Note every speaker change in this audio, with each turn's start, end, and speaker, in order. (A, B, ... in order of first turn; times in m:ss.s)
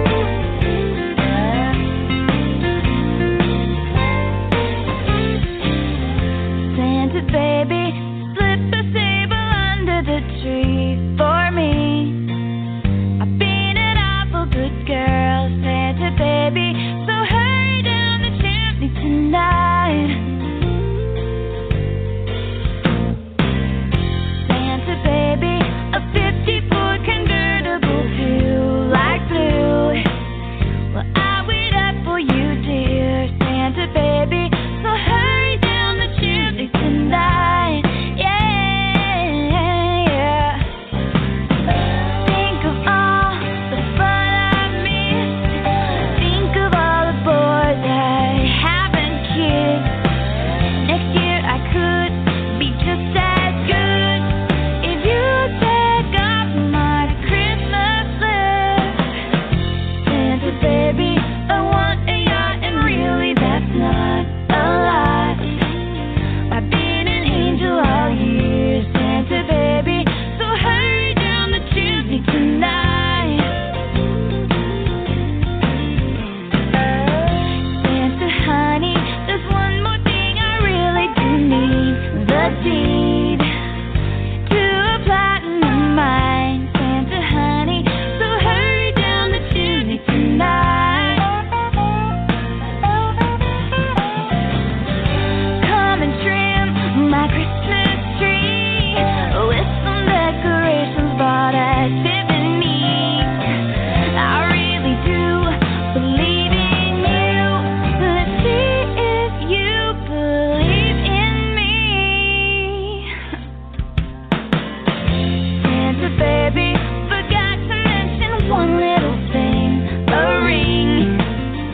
0:06.7-0:12.2 A
0:13.2-0:20.2 A
0:24.4-0:30.0 A
0:30.9-0:40.7 A
0:41.7-0:50.0 A
0:50.8-0:59.0 A
1:00.0-1:05.5 A
1:06.5-1:13.5 A
1:17.3-1:23.4 A
1:24.4-1:31.3 A
1:35.6-1:43.4 A
1:44.1-1:53.3 A
1:55.5-2:01.2 A